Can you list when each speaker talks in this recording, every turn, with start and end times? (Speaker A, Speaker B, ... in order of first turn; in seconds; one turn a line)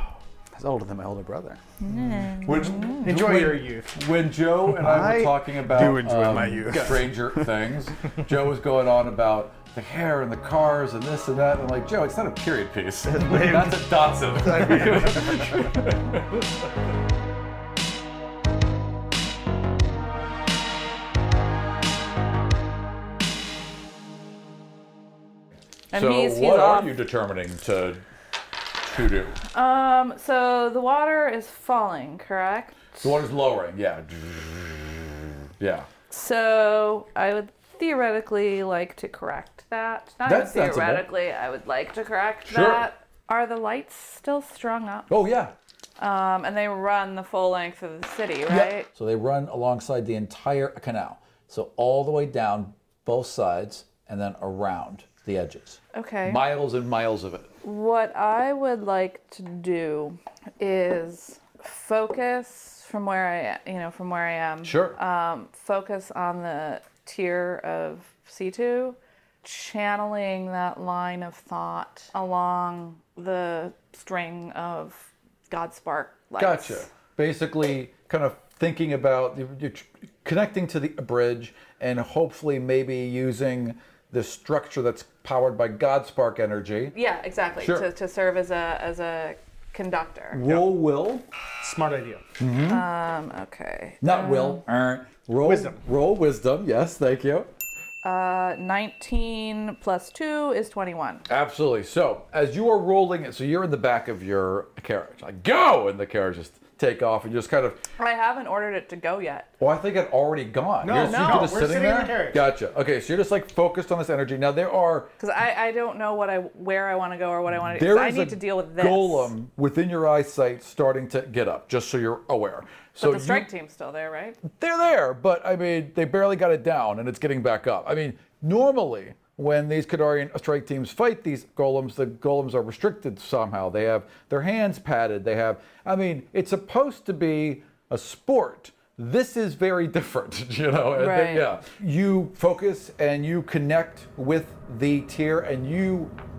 Speaker A: 0.5-1.6
Speaker B: 1.8-3.0
Speaker C: 2.4-16.2
Speaker D: 3.0-3.9
Speaker A: 4.7-7.5
Speaker A: 13.1-13.8
Speaker A: 14.4-15.3
Speaker B: 25.9-26.9
Speaker C: 25.9-28.0
Speaker C: 28.9-29.4
Speaker B: 29.5-33.0
Speaker C: 33.0-35.9
Speaker B: 36.1-45.1
Speaker C: 40.2-41.1
Speaker C: 42.5-42.9
Speaker C: 45.1-45.5
Speaker B: 46.0-48.9
Speaker C: 48.5-57.5
Speaker B: 55.9-56.5
Speaker B: 57.6-76.9
Speaker C: 64.6-65.0
Speaker C: 76.4-87.0
Speaker B: 86.9-90.5
Speaker C: 87.6-87.9
Speaker C: 90.3-91.2
Speaker D: 91.6-92.2
Speaker C: 92.4-92.8
Speaker B: 92.6-94.6
Speaker C: 94.0-97.5
Speaker D: 95.4-95.8
Speaker B: 98.0-101.2
Speaker C: 101.3-107.8
Speaker B: 108.0-109.5
Speaker C: 109.6-115.1
Speaker D: 110.8-112.4
Speaker B: 111.0-111.5
Speaker B: 115.2-119.3
Speaker C: 117.6-123.5
Speaker B: 123.0-124.4
Speaker C: 124.4-146.1
Speaker B: 140.9-141.5